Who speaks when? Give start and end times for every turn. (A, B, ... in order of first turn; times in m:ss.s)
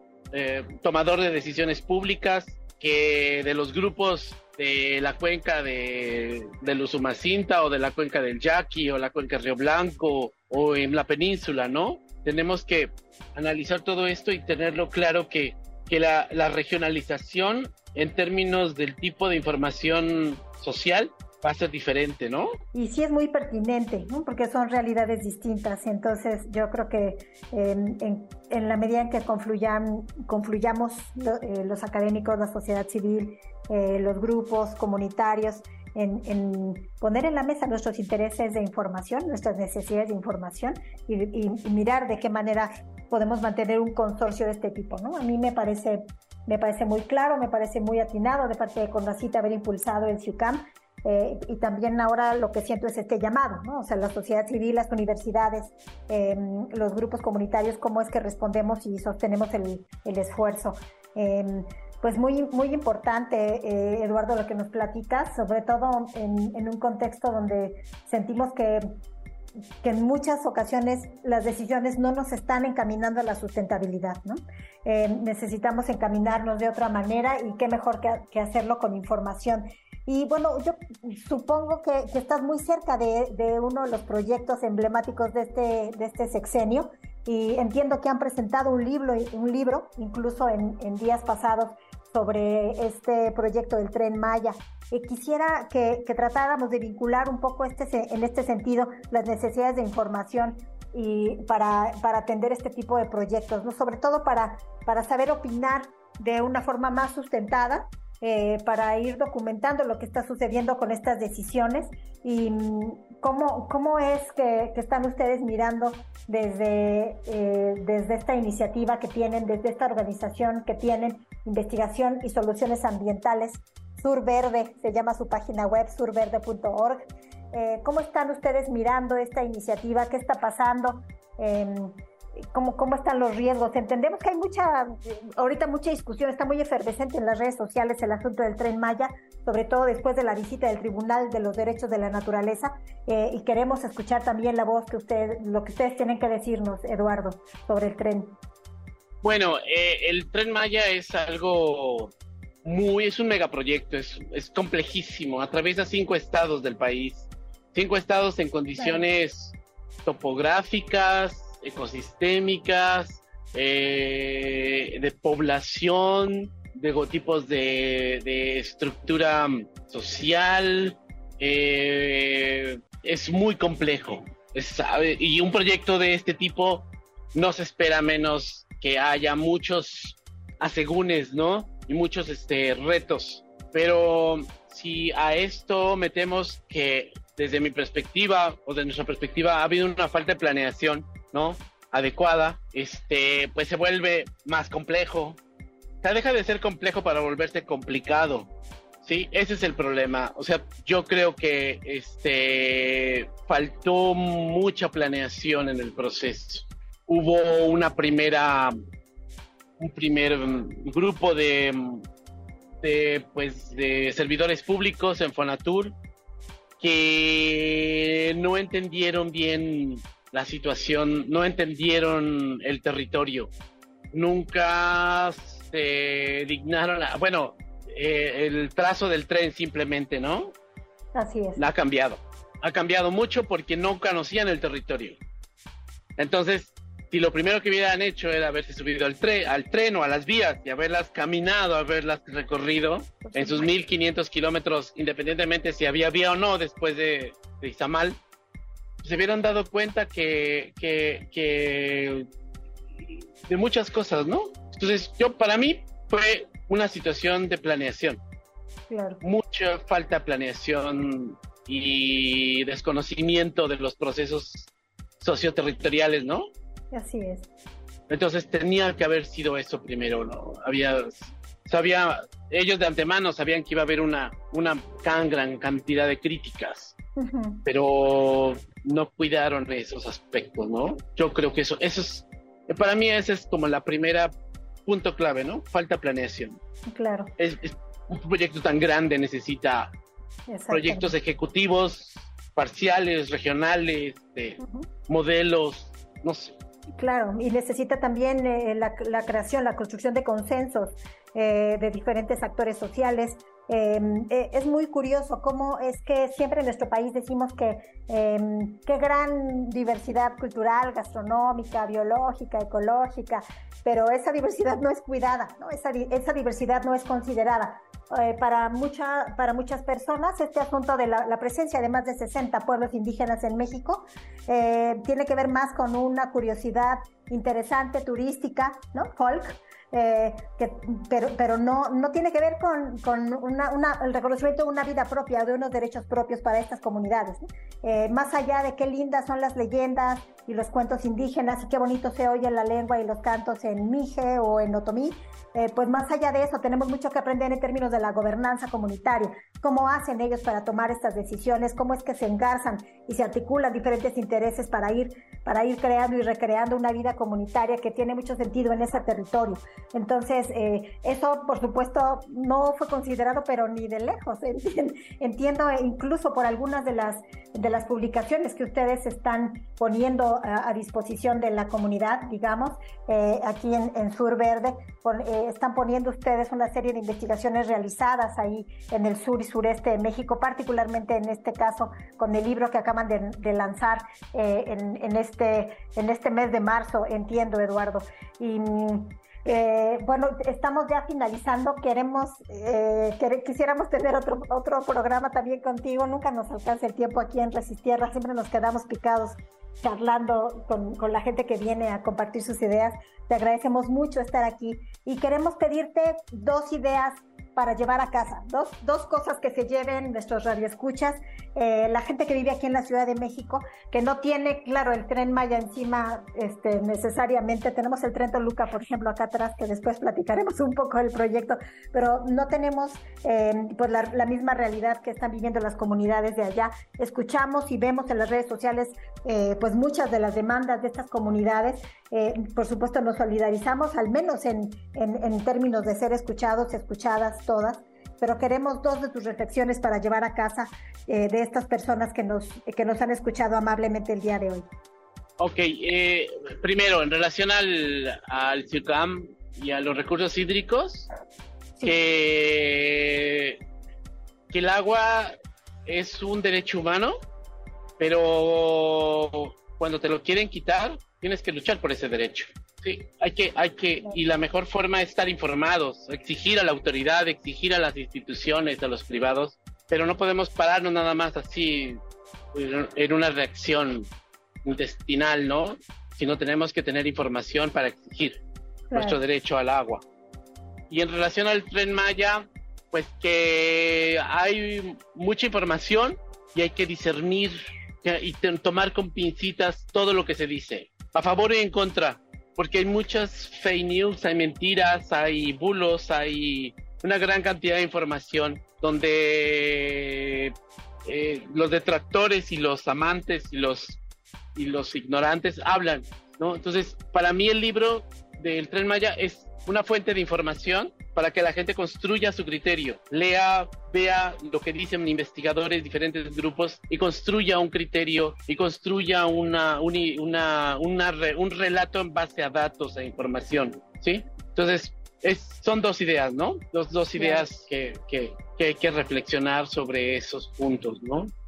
0:00.3-0:22.5 A
0:22.7-1:08.9 B
1:09.8-2:12.0 B
2:12.5-2:28.4 B
2:29.2-2:32.1 A
2:32.6-3:15.4 A
2:38.8-2:39.0 B
3:16.0-3:18.5 A
3:19.0-3:28.7 A
3:29.8-3:32.0 A
3:32.8-3:35.9 A
3:36.8-3:43.5 A
3:44.1-3:50.5 A
3:51.2-3:51.6 B
3:51.6-3:55.2 A
3:56.2-4:08.2 A
4:03.3-4:03.7 B
4:09.0-4:12.3 A
4:13.0-4:18.2 A
4:18.9-4:19.2 B
4:19.2-4:26.5 A
4:26.9-4:27.5 B
4:28.1-4:37.0 A
4:37.2-4:37.6 B
4:37.6-4:44.3 A
4:44.8-4:46.6 A
4:46.9-4:47.3 B
4:47.4-4:49.9 A
4:50.5-4:51.1 B
4:50.7-4:56.6 A
4:54.6-4:54.9 B
4:57.0-7:24.7 B
7:25.4-7:31.1 A
7:31.8-7:33.6 A
7:34.5-7:35.3 A
7:35.8-7:37.1 A
7:38.0-7:52.0 A
7:52.5-7:54.1 A
7:54.6-7:58.4 A
7:58.9-7:59.2 B
7:58.9-8:00.0 A
8:00.9-8:20.5 A
8:21.0-8:24.0 A
8:24.6-8:51.3 A
8:47.2-8:47.4 B